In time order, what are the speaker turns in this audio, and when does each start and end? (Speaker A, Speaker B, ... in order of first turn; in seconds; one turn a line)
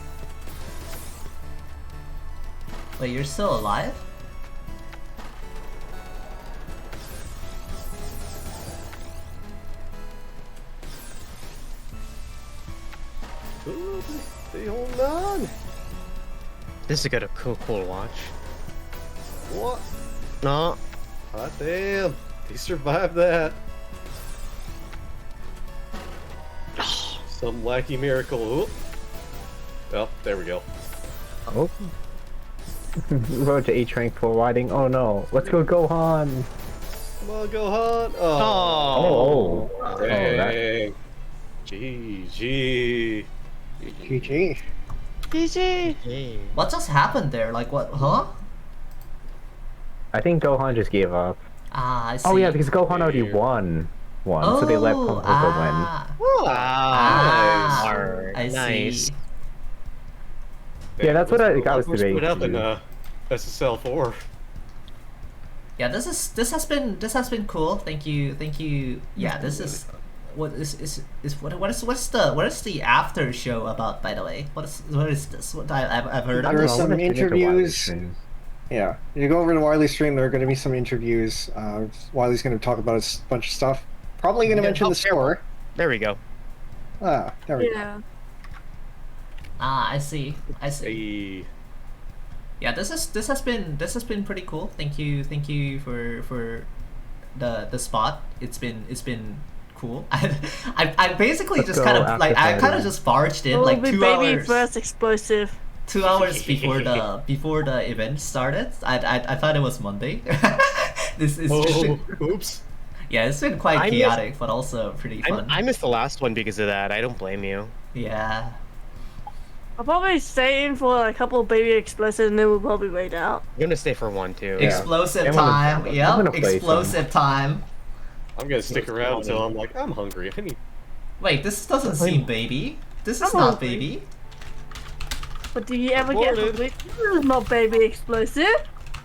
Speaker A: 3.0-4.1
Speaker B: 13.7-15.5
Speaker C: 16.9-18.3
Speaker B: 19.5-19.9
Speaker C: 20.4-20.8
Speaker B: 21.3-23.6
Speaker C: 26.8-27.2
Speaker B: 27.3-28.8
Speaker B: 29.9-30.7
Speaker D: 31.5-31.9
Speaker D: 33.1-36.5
Speaker B: 37.2-41.0
Speaker C: 38.4-39.1
Speaker D: 38.9-40.6
Speaker E: 39.8-40.1
Speaker B: 41.6-43.3
Speaker E: 43.8-44.6
Speaker F: 45.3-46.0
Speaker C: 45.9-46.6
Speaker A: 46.5-48.4
Speaker D: 50.1-51.4
Speaker A: 51.7-52.6
Speaker D: 52.2-55.9
Speaker B: 52.9-53.4
Speaker A: 54.4-56.2
Speaker B: 56.2-58.0
Speaker C: 56.4-59.1
Speaker A: 56.9-59.2
Speaker B: 61.0-64.2
Speaker D: 61.0-62.7
Speaker A: 65.8-76.8
Speaker D: 76.4-78.2
Speaker E: 76.5-77.9
Speaker E: 78.7-85.4
Speaker C: 84.5-86.2
Speaker E: 87.0-87.7
Speaker F: 87.6-88.0
Speaker A: 89.6-91.0
Speaker B: 90.8-91.5
Speaker A: 92.6-96.7
Speaker A: 97.4-104.7
Speaker D: 101.6-103.0
Speaker F: 103.5-105.6
Speaker A: 105.9-112.0
Speaker C: 106.0-107.1
Speaker B: 111.5-112.6
Speaker A: 113.1-115.6
Speaker C: 113.8-114.2
Speaker C: 115.2-117.7
Speaker A: 117.9-118.6
Speaker F: 119.8-123.4
Speaker C: 123.6-124.7
Speaker A: 124.6-127.7
Speaker D: 125.2-127.0
Speaker B: 128.4-130.6
Speaker C: 128.7-129.5
Speaker A: 131.2-134.1
Speaker F: 133.2-133.9
Speaker F: 135.5-138.6
Speaker B: 136.0-136.7